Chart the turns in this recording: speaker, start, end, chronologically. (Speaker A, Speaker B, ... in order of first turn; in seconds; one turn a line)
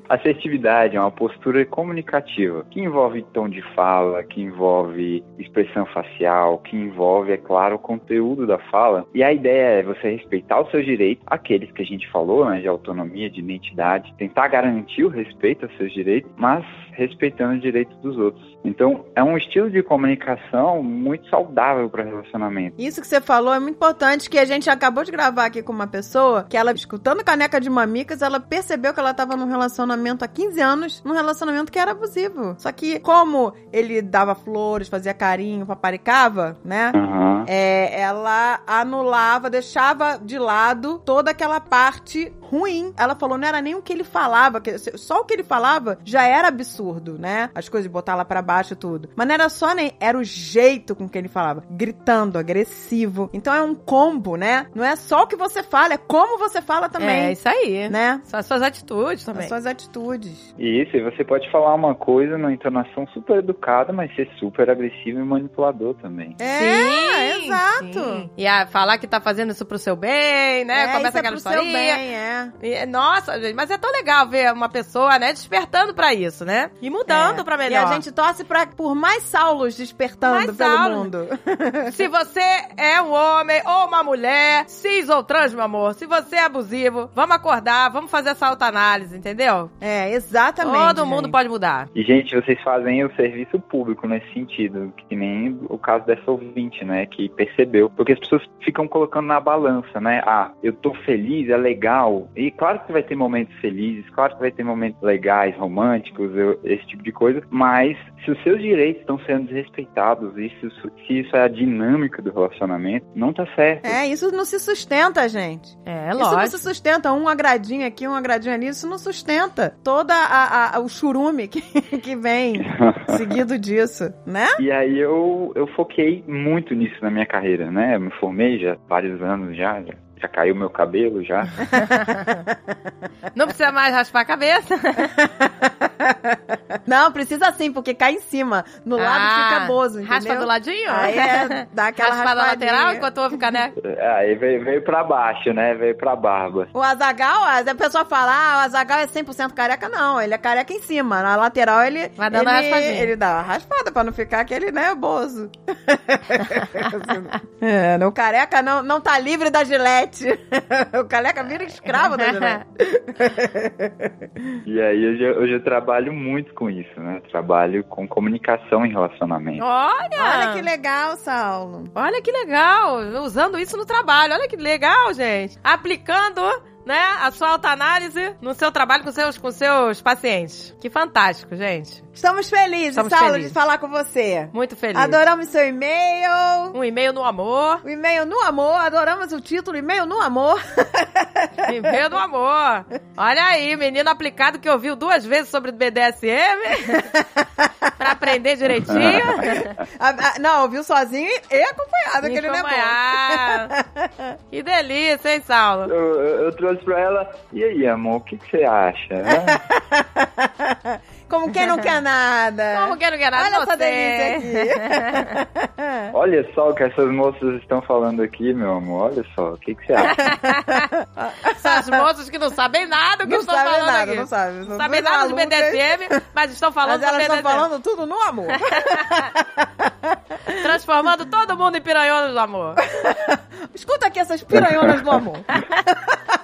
Speaker A: 0.1-22.8
Speaker B: 22.8-37.0
Speaker A: 36.9-37.5
Speaker B: 37.5-57.4
Speaker C: 57.0-59.5
Speaker B: 57.9-58.2
Speaker B: 59.4-60.5
Speaker A: 60.6-66.4
Speaker B: 66.4-68.3
Speaker C: 66.5-72.0
Speaker B: 70.7-72.5
Speaker C: 72.6-78.0
Speaker B: 77.1-81.9
Speaker C: 80.3-81.1
Speaker C: 81.9-89.7
Speaker B: 89.8-91.3
Speaker C: 90.6-91.9
Speaker A: 92.0-114.0
Speaker B: 113.8-124.6
Speaker C: 115.9-116.7
Speaker A: 122.6-123.2
Speaker A: 124.6-131.7
Speaker C: 131.8-132.2
Speaker C: 133.3-135.1
Speaker B: 135.8-136.3
Speaker B: 136.9-143.1
Speaker C: 139.0-143.7
Speaker A: 143.8-146.7
Speaker B: 146.7-164.5
Speaker C: 152.2-153.1
Speaker C: 162.1-162.6
Speaker A: 164.7-169.7
Speaker C: 169.6-170.7
Speaker B: 170.2-171.9
Speaker C: 171.9-182.1
Speaker B: 182.2-186.8
Speaker C: 182.9-183.6
Speaker C: 184.5-185.2
Speaker C: 186.7-187.8
Speaker B: 187.8-191.7
Speaker C: 191.7-197.0
Speaker B: 197.0-197.7
Speaker C: 198.0-199.7
Speaker A: 198.9-199.2
Speaker B: 199.4-204.3
Speaker C: 202.2-203.7
Speaker C: 204.5-205.9
Speaker A: 205.9-209.6
Speaker B: 209.3-216.1
Speaker C: 212.7-215.2
Speaker A: 216.1-220.2
Speaker C: 220.1-220.8
Speaker B: 221.2-221.9
Speaker C: 221.5-227.7
Speaker B: 223.2-225.9
Speaker B: 226.8-230.2
Speaker C: 230.6-232.8
Speaker B: 233.0-235.5
Speaker A: 234.6-234.9